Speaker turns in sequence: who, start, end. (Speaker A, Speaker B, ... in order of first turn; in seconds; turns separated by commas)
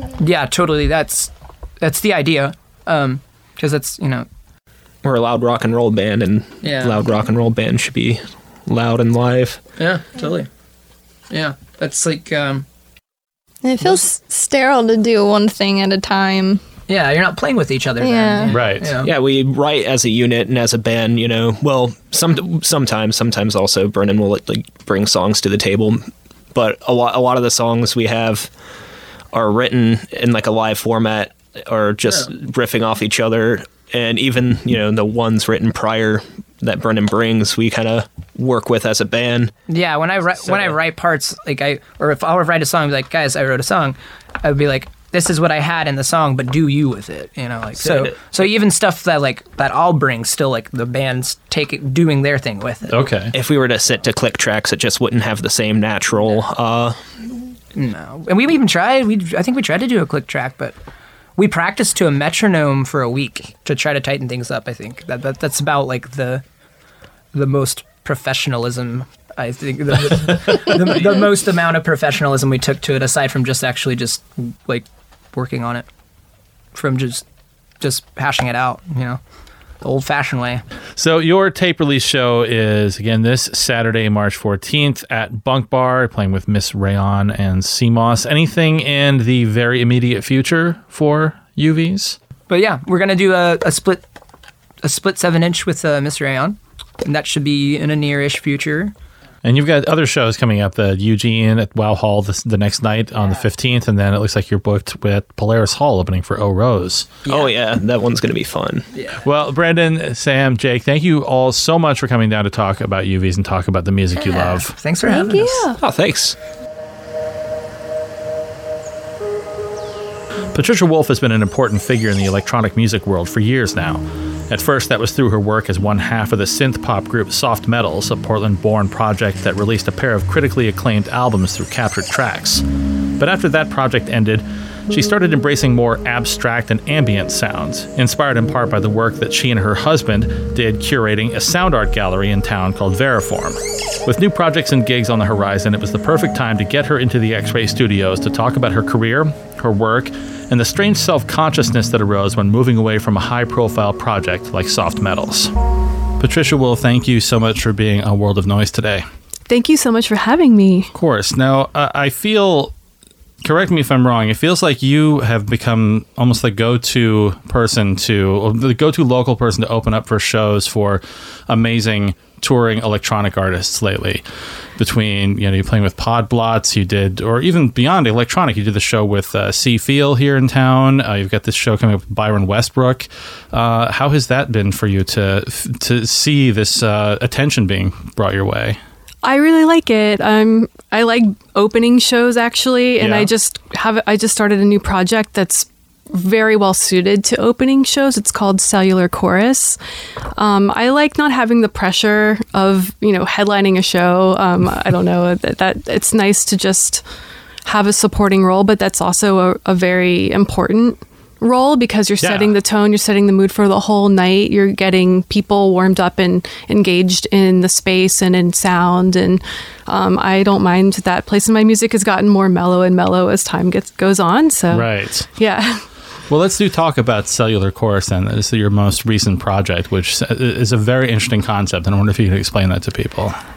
Speaker A: 0.2-1.3, Speaker A: 1.8-4.3, Speaker B: 5.0-9.6, Speaker A: 6.6-7.0, Speaker A: 9.8-10.5, Speaker A: 11.3-12.6, Speaker C: 13.6-16.6, Speaker A: 16.9-19.1, Speaker C: 18.0-18.5, Speaker D: 18.5-18.9, Speaker B: 19.0-28.5, Speaker B: 29.3-39.5, Speaker A: 39.7-53.0, Speaker B: 40.5-40.8, Speaker B: 47.8-48.1, Speaker D: 52.9-53.3, Speaker B: 53.3-57.0, Speaker A: 57.7-60.7, Speaker A: 61.4-66.4, Speaker A: 67.3-75.9, Speaker A: 76.7-77.2, Speaker A: 77.8-79.2, Speaker A: 79.8-80.6, Speaker D: 81.0-92.2, Speaker A: 92.5-94.0, Speaker A: 94.8-98.9, Speaker D: 99.4-107.1, Speaker A: 107.2-107.5, Speaker B: 107.3-108.8, Speaker A: 108.9-109.2, Speaker D: 109.2-114.7, Speaker A: 114.2-115.7, Speaker C: 115.1-115.7, Speaker B: 115.8-116.3, Speaker D: 120.5-132.6, Speaker D: 133.2-155.5, Speaker D: 156.2-159.1, Speaker E: 159.5-160.9, Speaker D: 160.9-162.7, Speaker D: 163.4-174.2, Speaker D: 174.8-188.8, Speaker E: 189.2-199.8, Speaker D: 193.0-193.3, Speaker E: 200.3-207.0, Speaker E: 207.6-225.8, Speaker D: 212.2-212.5, Speaker D: 224.7-225.3, Speaker D: 226.3-233.4